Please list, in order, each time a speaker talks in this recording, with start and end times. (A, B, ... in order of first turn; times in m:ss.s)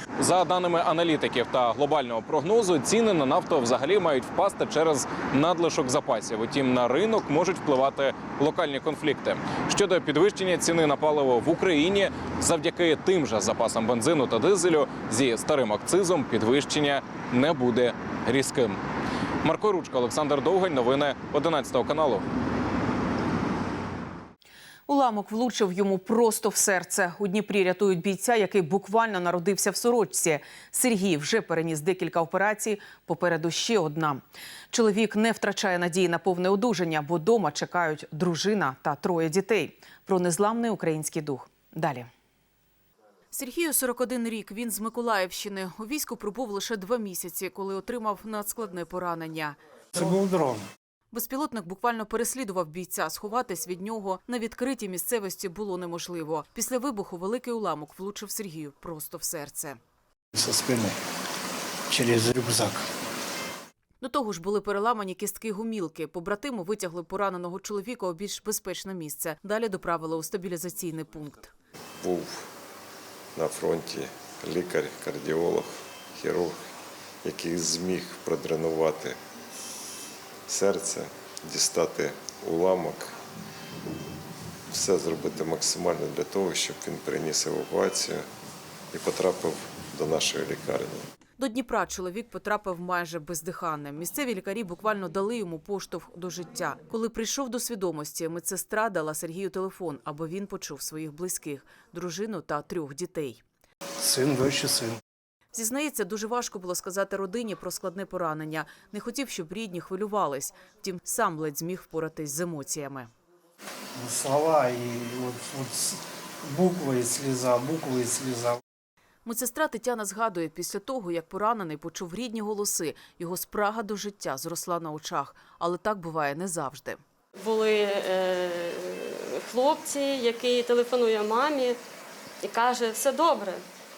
0:00.2-0:18.8 A
0:19.4-0:22.2 A
0:24.9-0:42.1 B
0:43.3-0:50.2 B
0:51.1-0:59.8 B
1:04.0-1:11.5 B
1:12.0-1:12.5 C
1:13.4-1:16.7 C
1:17.2-1:19.2 C
1:20.5-1:23.1 C
1:24.7-1:28.3 C
1:28.9-1:31.1 C
1:31.4-1:43.4 B
1:45.5-1:53.1 B
1:54.3-1:55.6 D
1:56.8-1:57.5 D
1:59.2-2:07.0 B
2:07.4-2:11.8 E
2:12.4-2:13.6 E